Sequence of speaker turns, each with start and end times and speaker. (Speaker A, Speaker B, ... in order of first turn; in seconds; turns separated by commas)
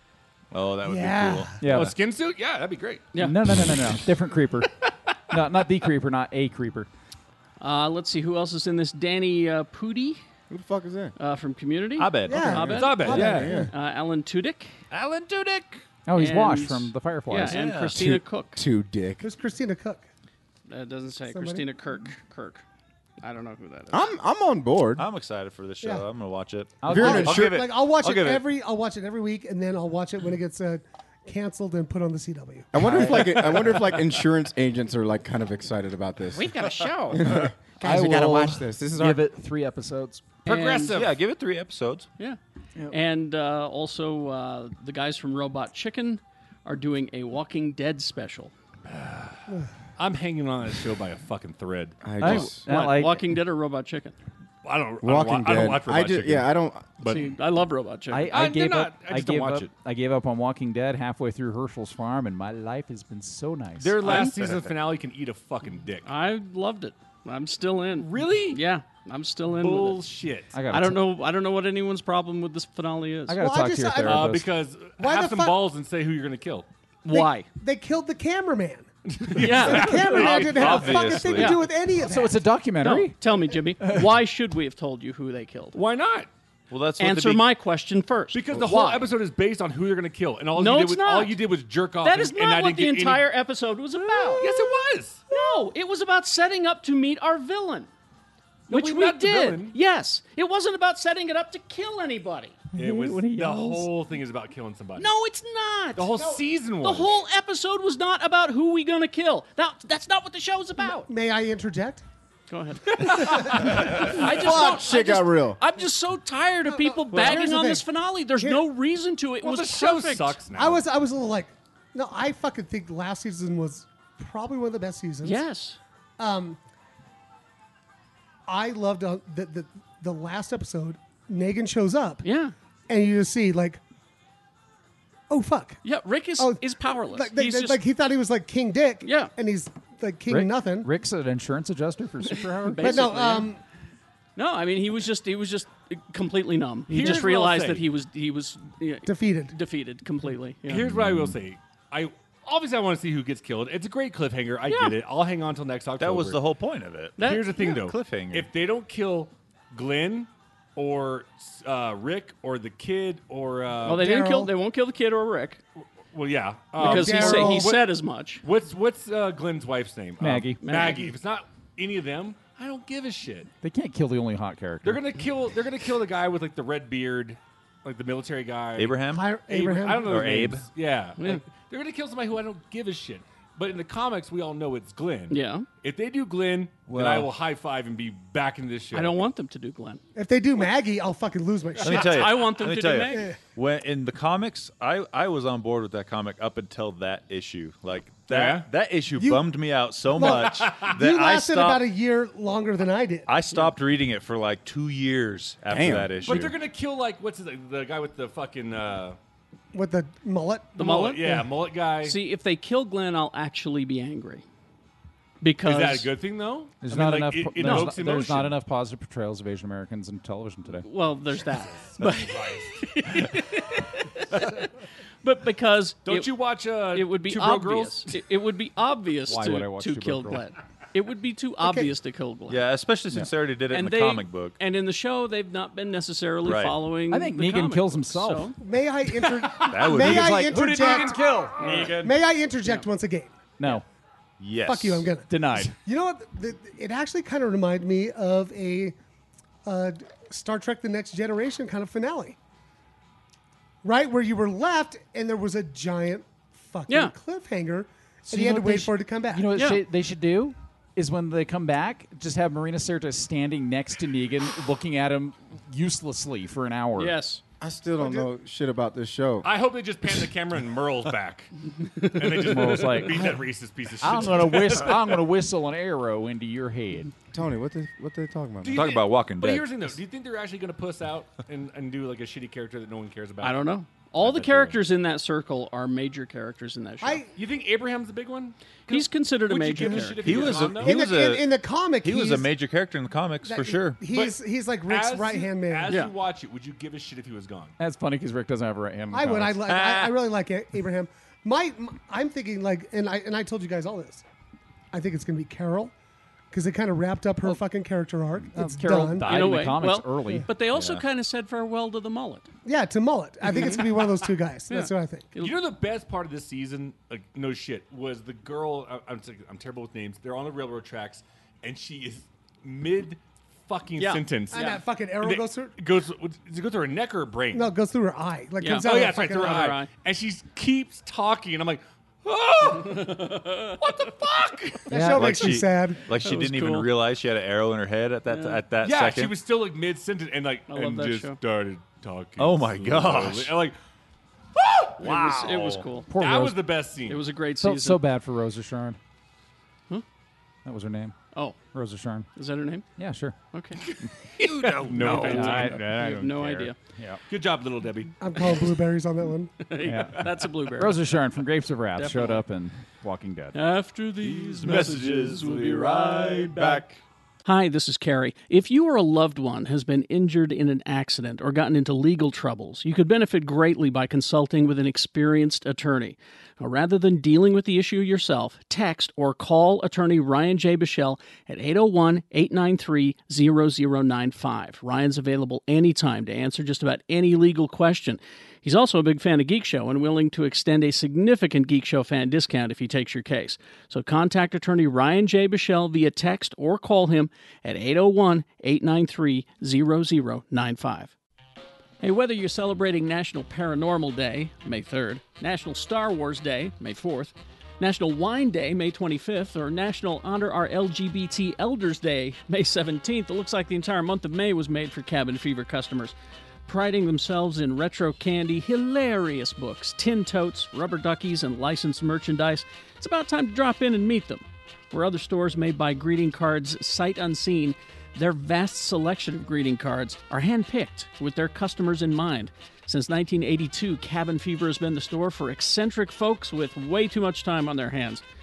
Speaker A: 0.5-1.9, Speaker B: 0.9-1.7, Speaker C: 1.6-2.0, Speaker D: 1.6-3.1, Speaker E: 3.1-3.4, Speaker C: 3.2-4.7, Speaker C: 5.3-6.9, Speaker E: 7.6-10.2, Speaker F: 10.5-11.1, Speaker E: 11.2-14.7, Speaker A: 12.0-12.6, Speaker B: 12.3-13.5, Speaker D: 12.6-13.5, Speaker F: 13.1-13.7, Speaker A: 14.9-15.8, Speaker C: 16.1-17.6, Speaker E: 16.2-18.6, Speaker A: 17.4-18.0, Speaker F: 18.0-19.3, Speaker B: 19.2-20.1, Speaker E: 20.7-22.6, Speaker B: 21.3-21.7, Speaker E: 23.2-24.1, Speaker F: 23.9-25.1, Speaker A: 25.0-28.4, Speaker C: 26.8-27.4, Speaker B: 26.9-32.7, Speaker F: 26.9-27.6, Speaker F: 32.7-36.6, Speaker C: 32.8-33.4, Speaker E: 36.3-37.2, Speaker F: 37.1-39.3, Speaker C: 37.8-40.4, Speaker D: 40.5-41.1, Speaker E: 40.5-41.0, Speaker A: 40.9-42.1, Speaker E: 42.9-48.5, Speaker D: 48.9-52.5, Speaker F: 52.0-52.6, Speaker C: 52.1-53.3, Speaker E: 52.7-54.1, Speaker D: 54.6-57.4, Speaker F: 55.0-56.9, Speaker E: 57.0-58.3, Speaker C: 58.1-64.3, Speaker D: 58.3-59.7, Speaker D: 63.8-66.1, Speaker A: 64.2-64.6, Speaker E: 66.0-70.0, Speaker D: 68.0-68.6, Speaker D: 69.5-70.6, Speaker C: 70.5-71.0, Speaker E: 70.7-73.4, Speaker C: 73.3-74.5, Speaker B: 73.4-74.4, Speaker D: 74.0-76.7, Speaker B: 75.0-75.6, Speaker E: 77.0-77.5, Speaker B: 77.1-82.4, Speaker D: 79.1-81.3, Speaker E: 79.3-81.6, Speaker A: 80.0-81.6, Speaker C: 82.0-83.2, Speaker E: 82.8-85.8, Speaker C: 83.8-84.1, Speaker D: 85.7-86.3, Speaker A: 86.7-87.5, Speaker E: 87.0-89.1, Speaker D: 88.3-93.3, Speaker E: 90.5-91.4, Speaker E: 92.0-94.5, Speaker D: 94.2-95.2, Speaker E: 95.3-97.9, Speaker D: 98.7-99.8, Speaker E: 98.7-102.6, Speaker C: 102.7-103.9, Speaker D: 102.8-105.1, Speaker E: 105.0-111.1, Speaker D: 106.0-107.2, Speaker B: 110.8-112.0, Speaker E: 112.5-120.4, Speaker D: 113.0-113.6, Speaker B: 113.4-113.8, Speaker F: 113.8-115.6, Speaker B: 116.7-117.9, Speaker D: 117.1-117.5, Speaker B: 118.4-118.6, Speaker D: 119.4-120.8, Speaker B: 120.5-125.4, Speaker E: 125.2-125.8, Speaker B: 126.2-126.6, Speaker B: 128.5-132.2, Speaker E: 132.2-132.5, Speaker B: 132.9-133.8, Speaker B: 135.3-135.8, Speaker E: 135.8-137.8, Speaker B: 136.4-140.9, Speaker E: 139.0-139.3, Speaker C: 140.3-143.2, Speaker E: 142.6-143.5, Speaker B: 142.8-143.6, Speaker E: 144.4-150.9, Speaker D: 146.9-147.9, Speaker B: 149.1-149.6, Speaker D: 150.7-156.4, Speaker C: 151.0-151.4, Speaker E: 154.7-154.9, Speaker A: 156.0-158.5, Speaker E: 157.2-157.7, Speaker D: 157.2-164.1, Speaker E: 163.8-165.6, Speaker B: 163.9-164.5, Speaker D: 166.1-173.5, Speaker B: 166.8-167.8, Speaker E: 166.8-168.4, Speaker C: 170.2-170.6, Speaker E: 170.6-171.1, Speaker C: 173.6-175.2, Speaker D: 174.8-189.2, Speaker A: 178.8-179.3, Speaker B: 179.1-180.4, Speaker A: 179.9-180.7, Speaker E: 181.2-181.4, Speaker E: 185.3-185.7, Speaker A: 186.9-187.3, Speaker E: 188.9-190.0, Speaker B: 190.2-192.4, Speaker E: 191.8-193.3, Speaker A: 191.8-201.9, Speaker D: 198.3-198.7, Speaker B: 199.1-199.5, Speaker B: 200.2-203.3, Speaker D: 200.2-200.9, Speaker A: 203.3-206.6, Speaker F: 205.7-206.2, Speaker D: 206.2-209.2, Speaker B: 209.7-211.4, Speaker E: 210.8-211.4, Speaker D: 210.8-212.2, Speaker E: 212.0-214.4, Speaker E: 215.4-216.1, Speaker D: 215.6-218.6, Speaker C: 216.8-220.9, Speaker E: 217.6-217.9, Speaker E: 220.8-224.7, Speaker D: 221.7-222.8, Speaker D: 224.3-224.7, Speaker E: 225.2-232.6, Speaker D: 226.1-228.2, Speaker C: 229.3-230.4, Speaker B: 231.6-231.9, Speaker A: 232.5-234.6, Speaker E: 233.7-238.5, Speaker A: 236.4-236.8, Speaker C: 237.1-238.6, Speaker B: 238.6-241.2, Speaker A: 239.7-240.4, Speaker C: 239.9-241.8, Speaker D: 240.8-242.1, Speaker A: 241.7-241.9, Speaker B: 242.0-243.4, Speaker C: 243.6-243.8, Speaker A: 244.4-245.1, Speaker B: 244.6-249.0, Speaker C: 245.3-245.8, Speaker B: 249.7-252.4, Speaker B: 253.8-259.6, Speaker E: 256.9-257.1, Speaker C: 258.3-267.2, Speaker E: 259.6-259.8, Speaker E: 267.0-267.4, Speaker F: 267.6-269.5, Speaker B: 268.0-268.3, Speaker D: 269.4-271.5, Speaker D: 272.0-275.2, Speaker C: 272.3-273.4, Speaker C: 274.0-277.1, Speaker F: 277.3-278.9, Speaker D: 278.6-283.6, Speaker A: 278.7-279.9, Speaker E: 283.4-287.2, Speaker D: 284.2-284.8, Speaker B: 287.0-287.3, Speaker D: 287.4-291.1, Speaker E: 288.9-290.5, Speaker B: 289.9-292.5, Speaker A: 290.2-294.0, Speaker B: 293.4-295.9, Speaker D: 294.1-297.8, Speaker E: 295.9-296.1, Speaker C: 297.8-299.7, Speaker B: 299.1-304.2, Speaker D: 299.7-300.2, Speaker B: 304.9-305.9, Speaker B: 306.5-309.3, Speaker C: 308.6-310.5, Speaker E: 309.2-312.5, Speaker A: 310.7-311.0, Speaker B: 312.6-315.3, Speaker E: 313.5-313.9, Speaker E: 314.7-315.6, Speaker D: 315.4-327.7, Speaker E: 324.0-324.8, Speaker B: 324.5-325.7, Speaker B: 327.5-329.6, Speaker E: 328.6-329.9, Speaker D: 328.8-334.9, Speaker E: 332.9-333.8, Speaker B: 334.9-336.0, Speaker C: 334.9-335.6, Speaker A: 335.0-339.3, Speaker E: 336.2-336.9, Speaker E: 338.3-338.6, Speaker D: 338.8-343.8, Speaker E: 340.7-341.4, Speaker A: 342.4-343.6, Speaker D: 344.6-347.2, Speaker E: 345.0-346.1, Speaker A: 345.1-345.9, Speaker C: 346.1-346.8, Speaker E: 347.1-348.0, Speaker C: 347.6-349.0, Speaker C: 350.6-351.1, Speaker C: 351.7-352.3, Speaker E: 352.4-352.9, Speaker C: 353.0-353.4, Speaker E: 353.5-353.8, Speaker D: 354.4-356.0, Speaker C: 354.8-357.2, Speaker E: 355.0-356.8, Speaker D: 357.3-358.6, Speaker B: 358.2-359.6, Speaker E: 359.6-361.0, Speaker C: 359.8-360.2, Speaker C: 360.8-363.6, Speaker E: 362.0-362.4, Speaker E: 363.5-366.9, Speaker D: 364.7-366.8, Speaker E: 367.4-401.1, Speaker E: 402.0-416.1, Speaker E: 416.7-438.2